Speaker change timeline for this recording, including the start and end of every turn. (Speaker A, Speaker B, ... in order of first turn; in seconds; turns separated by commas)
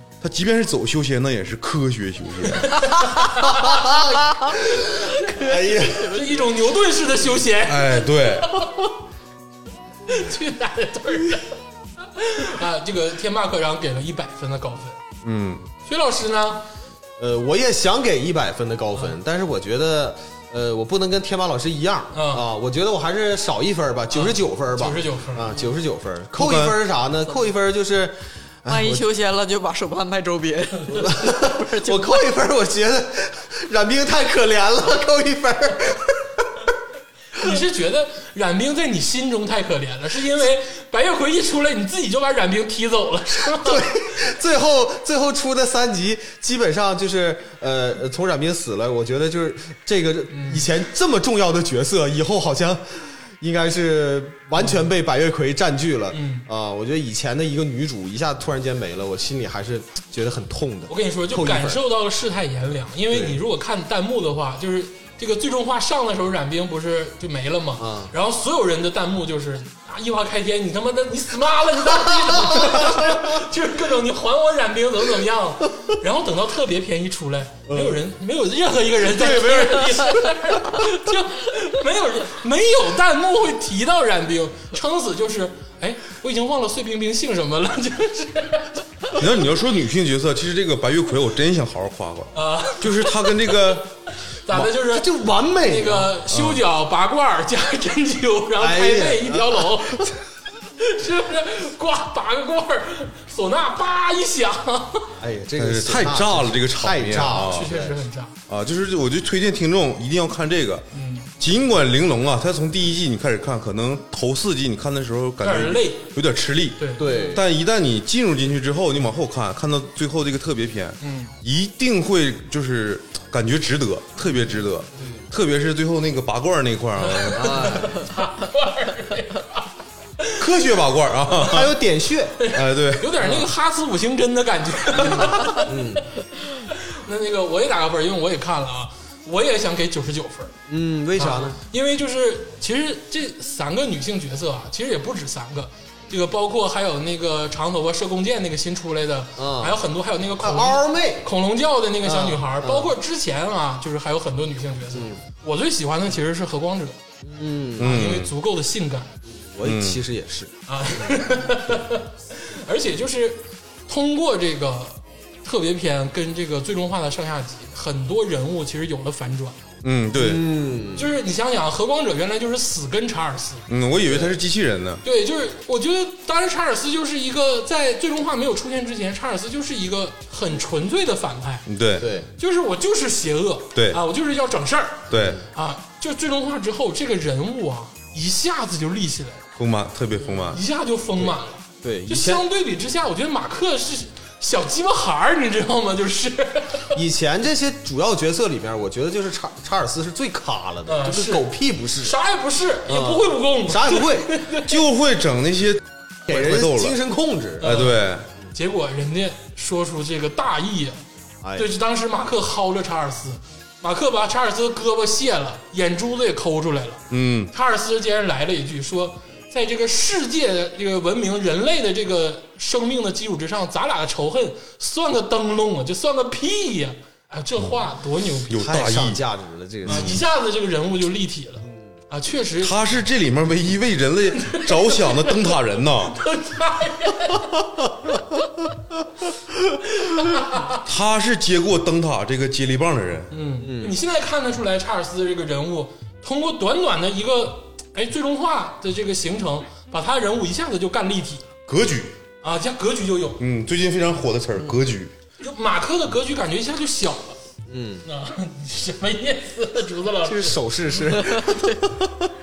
Speaker A: 0.2-2.8, Speaker B: 2.6-8.7, Speaker C: 3.7-4.0, Speaker C: 5.1-6.2, Speaker D: 5.5-6.6, Speaker A: 7.6-8.6, Speaker B: 10.1-11.5, Speaker B: 12.1-15.0, Speaker A: 15.2-15.7, Speaker B: 15.8-16.6, Speaker C: 17.2-29.0, Speaker B: 22.1-22.4, Speaker B: 24.1-25.6, Speaker A: 26.3-26.8, Speaker D: 28.7-32.3, Speaker C: 30.9-36.4, Speaker B: 37.3-43.9, Speaker C: 43.4-61.8, Speaker B: 50.3-50.7, Speaker B: 54.5-54.9, Speaker B: 56.1-56.5, Speaker B: 60.9-89.1, Speaker C: 63.1-63.4, Speaker C: 67.8-68.1, Speaker C: 72.3-73.1, Speaker C: 77.7-78.0, Speaker C: 79.0-80.2, Speaker A: 89.1-94.0, Speaker B: 92.3-93.3, Speaker B: 94.3-100.1, Speaker C: 94.6-96.1, Speaker A: 96.3-96.6, Speaker C: 98.6-100.0, Speaker B: 100.8-105.1, Speaker C: 105.2-108.0, Speaker A: 105.6-107.7, Speaker B: 107.2-108.3, Speaker A: 108.5-110.8, Speaker B: 110.9-111.3, Speaker A: 111.4-127.8, Speaker B: 115.4-116.1, Speaker B: 116.8-117.0, Speaker C: 117.0-117.5, Speaker B: 121.0-121.3, Speaker C: 125.0-125.3, Speaker B: 127.0-129.7, Speaker C: 127.3-128.1, Speaker B: 130.2-130.4, Speaker A: 130.4-131.7, Speaker C: 131.3-132.4, Speaker B: 132.4-135.9, Speaker A: 132.5-133.3, Speaker C: 133.2-133.5, Speaker C: 135.0-136.0, Speaker B: 136.5-140.5, Speaker C: 140.7-141.6, Speaker B: 141.2-157.0, Speaker C: 149.4-149.8, Speaker C: 150.4-151.2, Speaker C: 152.0-152.9, Speaker C: 154.9-155.2, Speaker C: 157.2-158.0, Speaker A: 157.8-158.3, Speaker B: 157.8-159.2, Speaker C: 159.3-161.1, Speaker A: 159.6-160.0, Speaker B: 160.7-169.6, Speaker A: 169.8-170.4, Speaker C: 170.2-171.1, Speaker B: 170.9-173.6, Speaker A: 173.7-175.0, Speaker C: 174.0-174.3, Speaker B: 175.0-181.7, Speaker A: 181.7-182.1, Speaker C: 182.0-182.3, Speaker B: 182.4-189.4, Speaker A: 183.7-184.0, Speaker A: 185.1-185.4, Speaker A: 189.6-190.6, Speaker B: 190.5-197.0, Speaker C: 191.2-192.4, Speaker C: 196.9-202.2, Speaker B: 200.8-201.5, Speaker B: 202.0-204.8, Speaker C: 202.9-204.3, Speaker A: 204.5-206.9, Speaker C: 206.3-207.7, Speaker B: 207.6-208.0, Speaker A: 207.6-208.3, Speaker B: 208.5-211.0, Speaker C: 211.4-211.7, Speaker B: 211.6-228.7, Speaker A: 217.1-217.5, Speaker A: 228.5-229.2, Speaker C: 228.6-230.2, Speaker A: 229.8-230.2, Speaker B: 229.8-232.7, Speaker A: 232.6-236.2, Speaker B: 234.4-235.5, Speaker B: 236.0-237.6, Speaker B: 240.0-240.8, Speaker A: 240.8-243.3, Speaker B: 243.3-251.4, Speaker C: 243.6-244.0, Speaker A: 251.7-252.1, Speaker B: 252.4-253.4, Speaker A: 253.4-255.1, Speaker B: 255.4-257.4, Speaker C: 257.7-258.0, Speaker B: 258.0-261.0, Speaker C: 260.2-262.3, Speaker D: 261.1-261.8